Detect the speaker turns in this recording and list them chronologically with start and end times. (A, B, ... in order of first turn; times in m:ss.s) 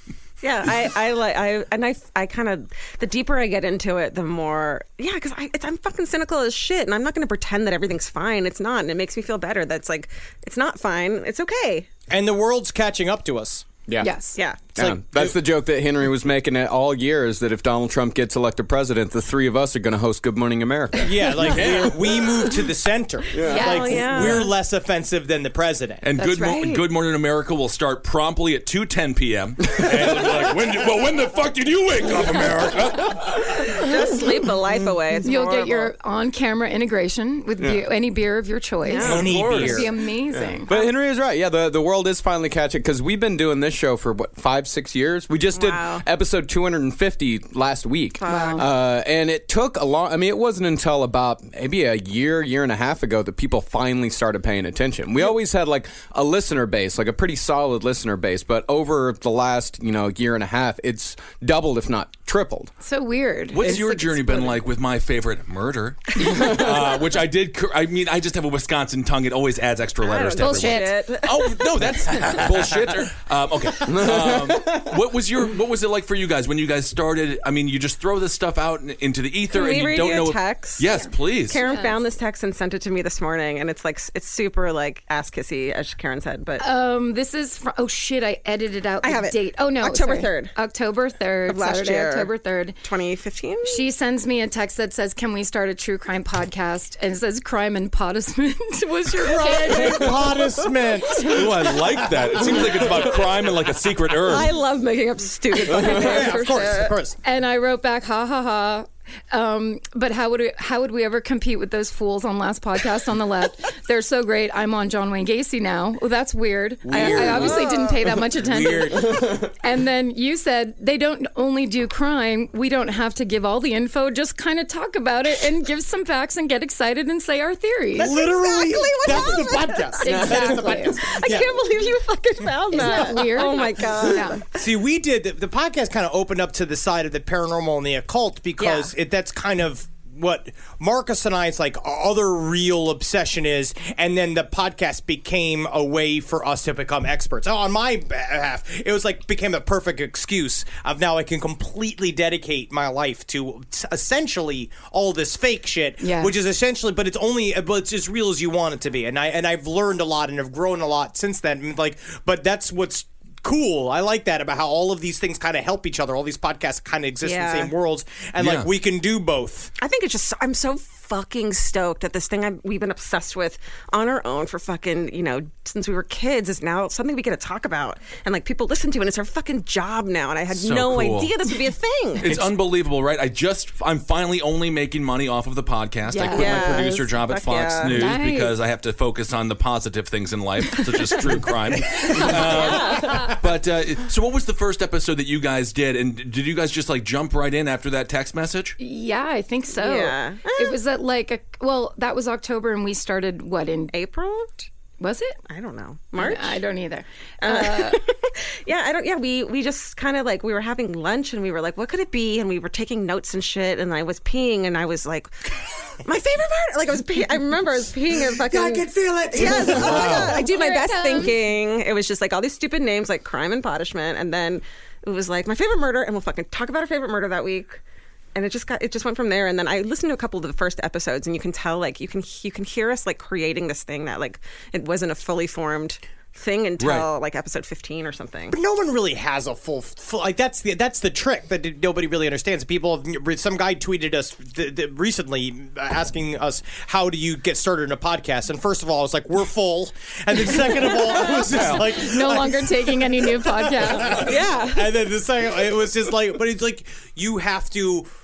0:00.4-0:11.9 A
0:12.1-0:13.7 B
0:13.9-0:14.1 C
0:14.0-0:14.4 D
0:14.4-0:14.6 A
0:14.7-0:22.4 C
0:14.8-0:15.3 B
0:21.0-0:26.1 B
0:23.3-0:24.2 C
0:23.4-0:24.5 D
0:23.5-0:24.5 A
0:26.0-0:33.6 E
0:26.2-0:26.8 D
0:29.7-0:30.3 C
0:33.6-0:35.9 A
0:35.2-0:40.7 D
0:38.8-0:39.3 A
0:39.0-0:39.9 B
0:39.0-1:02.7 C
0:45.5-0:46.0 A
0:48.2-0:48.7 A
0:48.2-0:48.6 D
1:02.8-1:04.6 D
1:03.5-1:21.6 E
1:10.0-1:11.7 A
1:10.4-1:11.0 D
1:13.8-1:14.9 C
1:19.5-1:20.8 A
1:20.9-1:22.0 D
1:21.5-1:26.6 A
1:26.6-1:32.8 D
1:29.0-1:30.5 A
1:31.5-1:32.3 A
1:32.8-1:33.8 A
1:33.6-1:40.4 D
1:39.1-1:43.6 B
1:41.2-1:44.5 E
1:44.3-1:47.0 A
1:45.7-1:47.2 B
1:47.2-2:08.1 D
1:56.8-1:59.4 B
1:56.9-1:58.0 A
2:08.0-2:14.4 A
2:08.0-2:11.5 B
2:10.0-2:11.0 D
2:12.7-2:14.4 D
2:12.8-2:13.5 B
2:14.5-2:49.7 B
2:18.6-2:18.9 A
2:36.0-2:36.3 D
2:47.2-2:47.7 A
2:48.4-2:48.7 E
2:49.8-3:02.4 A
3:00.5-3:01.3 E
3:02.2-3:18.8 E
3:06.1-3:07.1 D
3:06.3-3:07.9 A
3:07.9-3:08.6 D
3:12.5-3:13.1 A
3:18.8-3:23.9 D
3:19.7-3:20.8 A
3:23.9-3:24.6 A
3:25.0-3:25.4 D
3:25.5-3:26.6 A
3:26.2-3:28.0 D
3:27.4-3:35.3 A
3:36.0-3:47.8 A
3:38.4-3:40.4 B
3:40.1-3:41.3 D
3:48.3-3:58.6 A
3:56.8-3:57.1 E
3:58.5-4:18.1 B
4:11.4-4:11.9 E
4:11.9-4:14.3 D
4:14.1-4:15.0 A